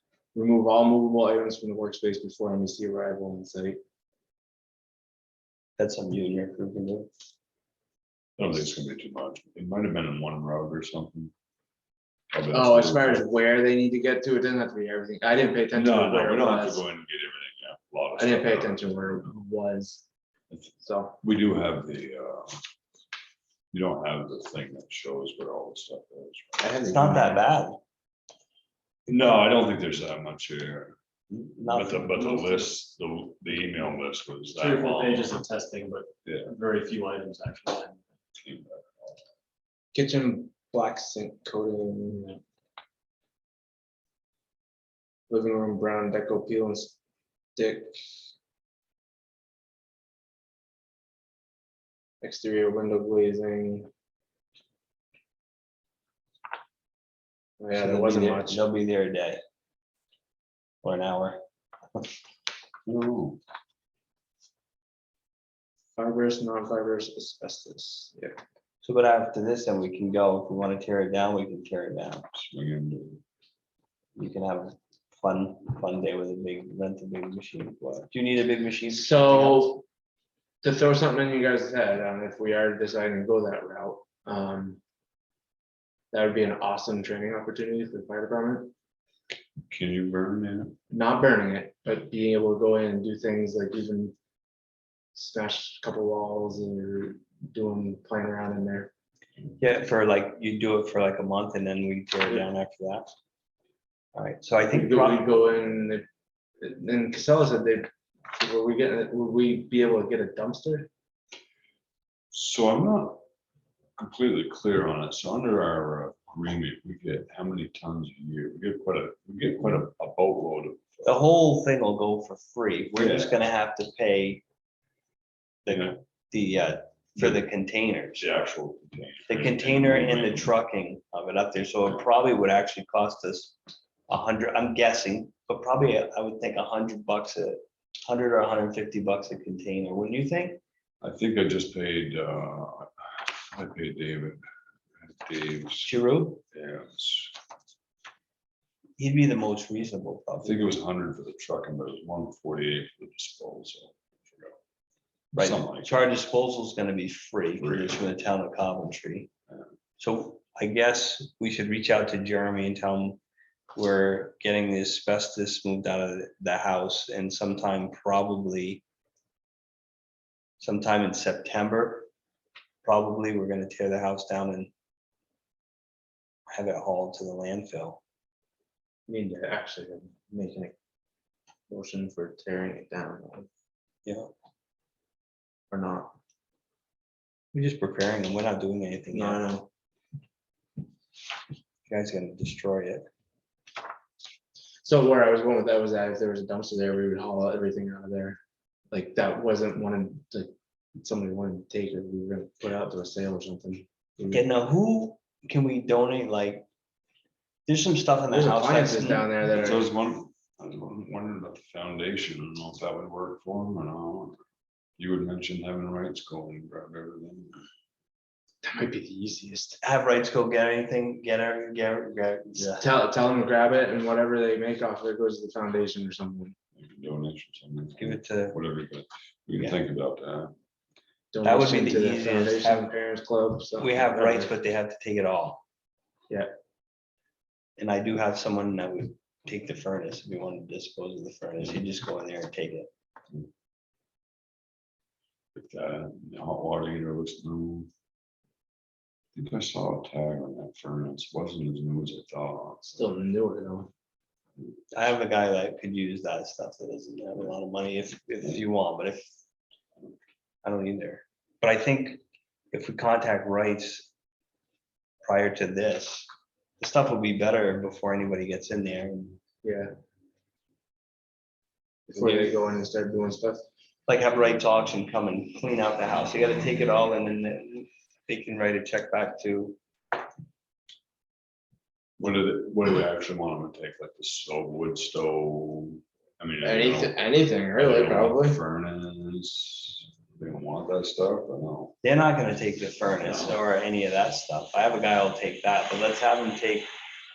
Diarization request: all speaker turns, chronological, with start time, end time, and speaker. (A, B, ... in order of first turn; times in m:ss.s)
0:00.3-0:03.8 A
0:05.8-0:07.1 B
0:08.4-0:11.3 C
0:12.3-0:13.3 C
0:12.5-0:16.8 A
0:15.7-0:19.3 C
0:18.2-0:20.0 A
0:20.5-0:22.6 C
0:20.8-0:21.2 A
0:23.7-0:26.8 C
0:26.6-0:27.5 A
0:26.9-0:27.8 B
0:29.1-0:35.3 C
0:31.6-0:32.7 B
0:34.6-0:38.0 D
0:36.3-0:36.5 C
0:38.4-0:39.2 C
0:39.9-0:42.4 A
0:45.3-0:47.0 A
0:47.6-0:48.0 A
0:52.2-0:53.9 A
0:57.6-0:58.6 A
0:57.7-0:59.4 B
1:00.8-1:01.4 B
1:02.9-1:03.4 C
1:06.0-1:08.3 A
1:08.8-1:12.3 B
1:12.3-1:13.2 C
1:14.2-1:19.7 B
1:18.9-1:19.8 A
1:20.6-1:24.8 A
1:26.1-1:28.7 A
1:29.7-1:30.8 C
1:30.9-1:34.2 A
1:35.2-1:38.9 A
1:39.6-1:43.1 B
1:44.2-1:45.3 B
1:44.7-1:46.0 A
1:46.6-1:50.9 A
1:52.3-1:53.2 C
1:54.0-2:01.2 C
2:01.0-2:04.4 B
2:02.9-2:03.4 C
2:05.7-2:08.3 B
2:08.2-2:10.5 C
2:09.3-2:13.6 B
2:14.1-2:20.6 B
2:21.0-2:24.4 C
2:25.0-2:25.9 C
2:25.8-2:26.4 B
2:26.5-2:27.4 C
2:29.0-2:30.7 B
2:30.4-2:34.6 C
2:35.3-2:39.3 B
2:35.4-2:35.9 C
2:37.6-2:38.1 C
2:40.0-2:43.2 B
2:43.8-2:48.8 B
2:50.6-2:52.1 B
2:52.8-2:54.7 B
2:56.5-2:58.0 B
2:59.1-3:00.8 A
3:01.7-3:03.5 A
3:04.1-3:04.3 B
3:05.7-3:06.2 A
3:07.5-3:09.4 B
3:09.1-3:09.7 A
3:11.9-3:13.1 B
3:14.8-3:18.4 A
3:18.9-3:24.4 A
3:24.3-3:26.6 B
3:27.7-3:29.3 B
3:28.3-3:29.9 A
3:29.6-3:34.4 C
3:35.0-3:37.6 C
3:38.6-3:39.8 A
3:39.8-3:42.9 B
3:42.8-3:46.6 A
3:46.8-3:50.5 C
3:48.0-3:48.6 B
3:51.3-3:54.5 A
3:51.4-3:52.9 B
3:53.8-3:55.6 B
3:57.8-4:02.9 B
4:05.5-4:07.9 C
4:09.3-4:12.9 C
4:12.8-4:13.9 A
4:14.9-4:19.2 B
4:20.6-4:22.2 B
4:22.7-4:24.1 B
4:25.2-4:26.3 B
4:26.8-4:29.4 B
4:29.6-4:29.9 A
4:32.1-4:33.6 A
4:32.1-4:32.5 B
4:34.1-4:39.8 B
4:42.2-4:52.0 C
4:46.6-4:48.6 A
4:52.0-4:56.9 B
4:53.3-4:53.6 C